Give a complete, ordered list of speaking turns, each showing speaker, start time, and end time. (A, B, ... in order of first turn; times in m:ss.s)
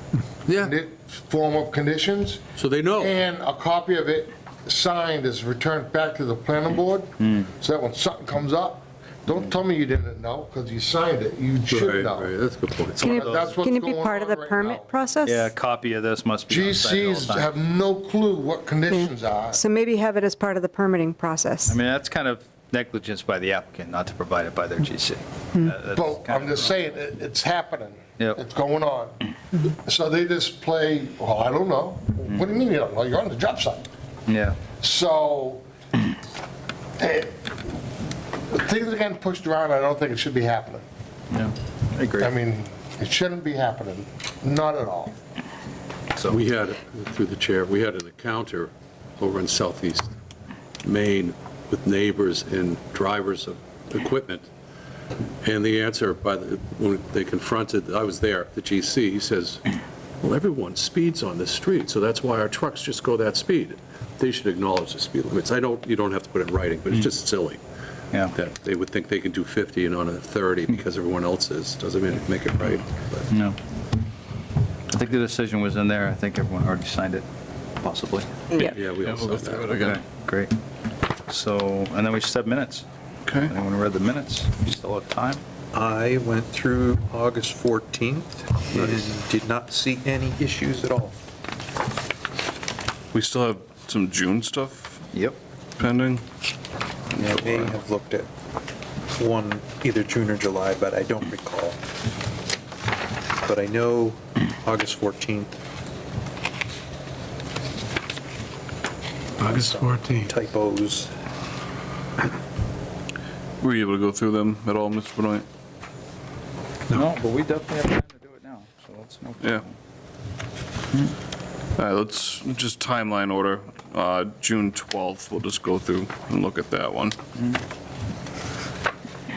0:00.5-0:00.8 A
0:00.5-0:02.4 B
0:02.6-0:03.2 A
0:02.9-0:12.3 B
0:11.7-0:13.1 A
0:12.9-0:14.9 B
0:13.0-0:13.5 C
0:13.1-0:15.5 D
0:15.2-0:17.5 C
0:16.5-0:19.6 B
0:19.5-0:20.7 D
0:20.0-0:21.7 E
0:21.7-0:27.0 C
0:25.9-0:33.9 B
0:34.3-0:34.6 C
0:34.8-0:35.6 B
0:37.0-0:37.6 B
0:38.5-0:40.8 B
0:41.3-0:42.3 C
0:42.2-0:45.2 B
0:46.3-0:50.1 A
0:50.8-0:54.5 A
0:55.4-0:59.6 A
1:00.2-1:07.6 A
1:08.3-1:13.3 A
1:13.3-1:13.6 C
1:14.9-1:17.2 C
1:17.8-1:18.3 C
1:18.6-1:19.8 A
1:18.6-1:20.0 F
1:19.7-1:20.5 C
1:21.3-1:22.8 C
1:23.3-1:23.5 F
1:23.4-1:25.4 C
1:25.7-1:31.2 E
1:28.8-1:29.0 C
1:33.1-1:35.0 F
1:35.1-1:35.4 C
1:35.8-1:36.2 F
1:37.1-1:37.8 F
1:37.4-1:38.3 E
1:39.1-1:41.8 E
1:43.4-1:45.6 E
1:49.4-1:50.3 A
1:49.4-1:51.1 E
1:53.6-1:55.4 F
1:56.9-1:59.8 C
2:01.8-2:07.2 F